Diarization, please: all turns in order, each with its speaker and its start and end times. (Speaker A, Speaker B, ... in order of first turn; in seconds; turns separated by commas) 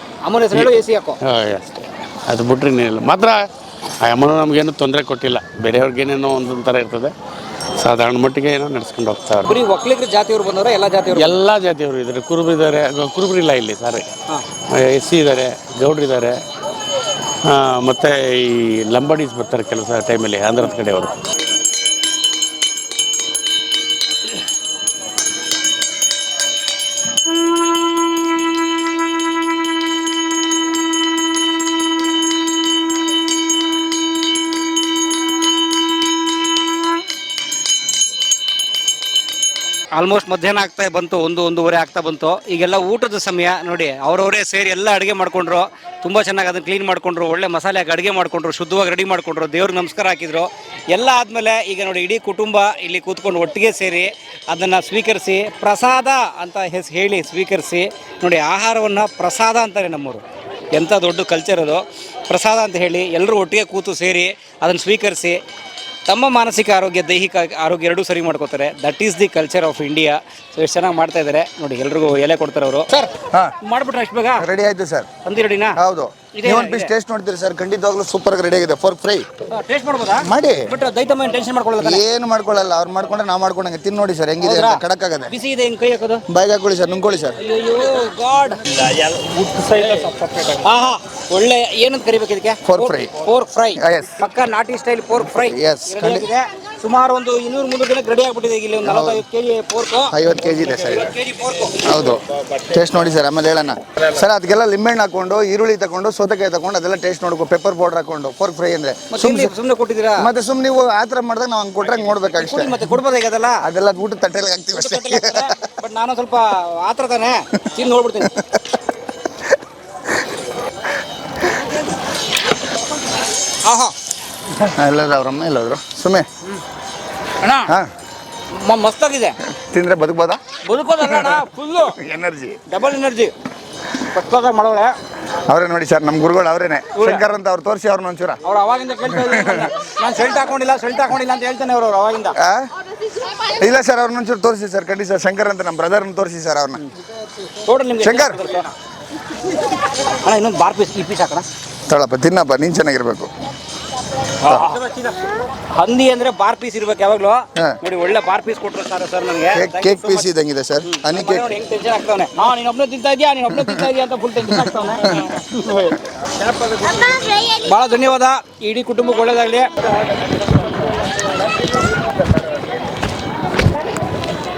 Speaker A: 0.2-1.2, Speaker B: 1.3-3.4, Speaker B: 4.0-7.1, Speaker B: 7.8-9.5, Speaker A: 9.5-11.4, Speaker B: 11.1-14.1, Speaker B: 14.7-16.3, Speaker B: 17.5-21.1, Speaker A: 40.0-60.2, Speaker A: 60.7-65.4, Speaker A: 66.1-73.1, Speaker A: 73.6-74.5, Speaker C: 74.4-75.1, Speaker A: 75.2-75.8, Speaker C: 75.8-79.2, Speaker A: 76.3-76.9, Speaker A: 79.5-82.0, Speaker C: 80.2-80.6, Speaker C: 81.8-85.3, Speaker A: 84.4-86.2, Speaker C: 86.3-87.3, Speaker A: 87.4-88.6, Speaker A: 90.6-100.1, Speaker C: 92.7-93.1, Speaker C: 93.8-94.2, Speaker C: 95.5-96.3, Speaker C: 98.8-99.2, Speaker C: 100.1-101.1, Speaker A: 100.8-101.8, Speaker C: 101.8-109.5, Speaker A: 109.1-110.3, Speaker C: 110.2-112.8, Speaker A: 112.3-113.6, Speaker C: 113.6-115.5, Speaker A: 114.7-118.3, Speaker A: 123.6-123.9, Speaker C: 124.7-126.2, Speaker A: 127.4-127.7, Speaker A: 128.5-129.3, Speaker C: 129.6-130.4, Speaker A: 130.6-131.9, Speaker C: 132.0-132.6, Speaker A: 132.7-133.3, Speaker A: 134.1-134.9, Speaker C: 135.5-138.4, Speaker A: 137.0-137.3, Speaker A: 138.4-142.3, Speaker C: 139.2-139.7, Speaker C: 143.6-146.8, Speaker A: 147.6-148.7, Speaker C: 148.0-148.4, Speaker A: 150.2-151.4, Speaker C: 151.9-153.3, Speaker A: 154.4-155.2, Speaker C: 154.5-154.7, Speaker A: 155.7-160.3, Speaker C: 159.5-161.5, Speaker A: 160.8-169.7